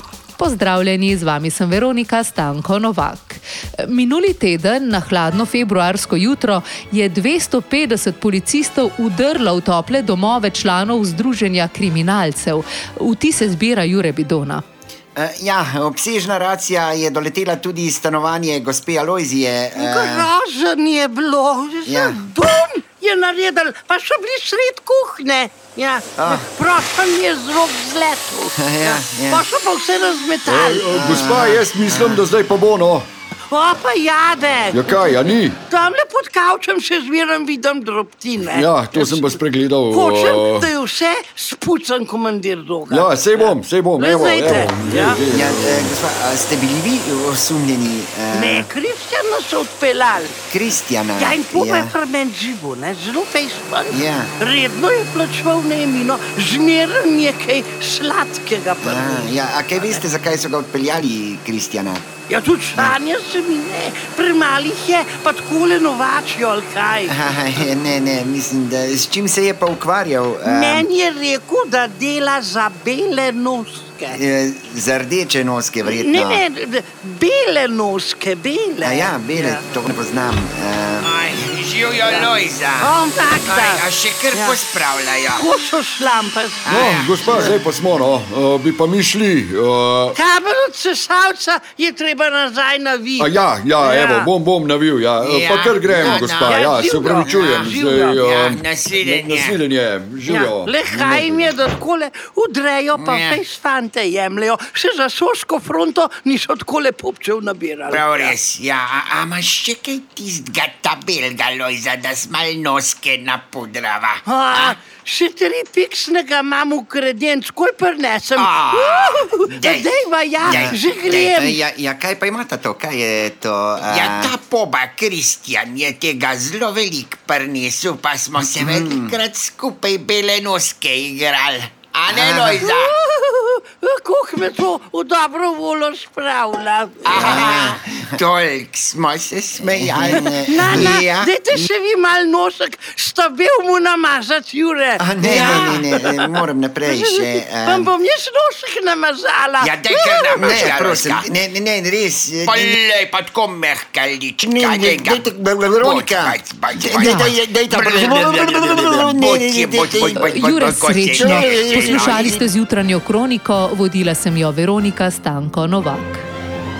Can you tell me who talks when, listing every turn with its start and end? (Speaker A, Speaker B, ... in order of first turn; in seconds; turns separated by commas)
Speaker A: 0.4-14.6, Speaker B: 15.2-20.3, Speaker C: 19.7-31.0, Speaker B: 21.8-22.2, Speaker B: 26.2-26.5, Speaker B: 28.6-29.4, Speaker D: 30.5-33.1, Speaker B: 30.9-32.2, Speaker C: 33.5-45.2, Speaker D: 34.7-35.6, Speaker D: 38.5-40.7, Speaker D: 42.9-45.9, Speaker B: 45.3-48.7, Speaker C: 48.3-50.4, Speaker B: 50.5-52.0, Speaker C: 51.2-60.0, Speaker B: 53.9-54.3, Speaker B: 58.8-62.1, Speaker C: 62.3-67.2, Speaker B: 67.0-70.9, Speaker C: 70.4-74.2, Speaker B: 74.1-76.4, Speaker C: 75.8-79.7, Speaker B: 78.8-81.1, Speaker E: 81.0-82.9, Speaker C: 82.0-84.6, Speaker E: 83.4-85.5, Speaker C: 85.3-86.8, Speaker E: 86.6-87.5, Speaker D: 86.7-90.2, Speaker B: 87.3-87.5, Speaker C: 90.1-94.3, Speaker D: 93.2-101.5, Speaker E: 95.2-96.6, Speaker C: 95.9-98.2, Speaker E: 97.2-99.6, Speaker C: 100.2-108.3, Speaker E: 102.9-103.4, Speaker E: 107.9-114.8, Speaker C: 114.2-121.6, Speaker E: 118.3-121.2, Speaker B: 120.4-124.3, Speaker E: 123.8-132.9, Speaker B: 128.6-129.1, Speaker B: 132.1-132.6, Speaker C: 132.6-137.6, Speaker E: 137.0-141.0, Speaker B: 137.1-138.0, Speaker B: 139.6-141.7, Speaker C: 140.0-146.3, Speaker B: 145.0-147.9, Speaker E: 145.3-145.8, Speaker C: 146.8-150.6, Speaker E: 149.6-151.3, Speaker B: 150.3-152.8, Speaker E: 152.4-162.4, Speaker B: 154.4-162.4, Speaker A: 157.0-157.3, Speaker A: 160.4-166.2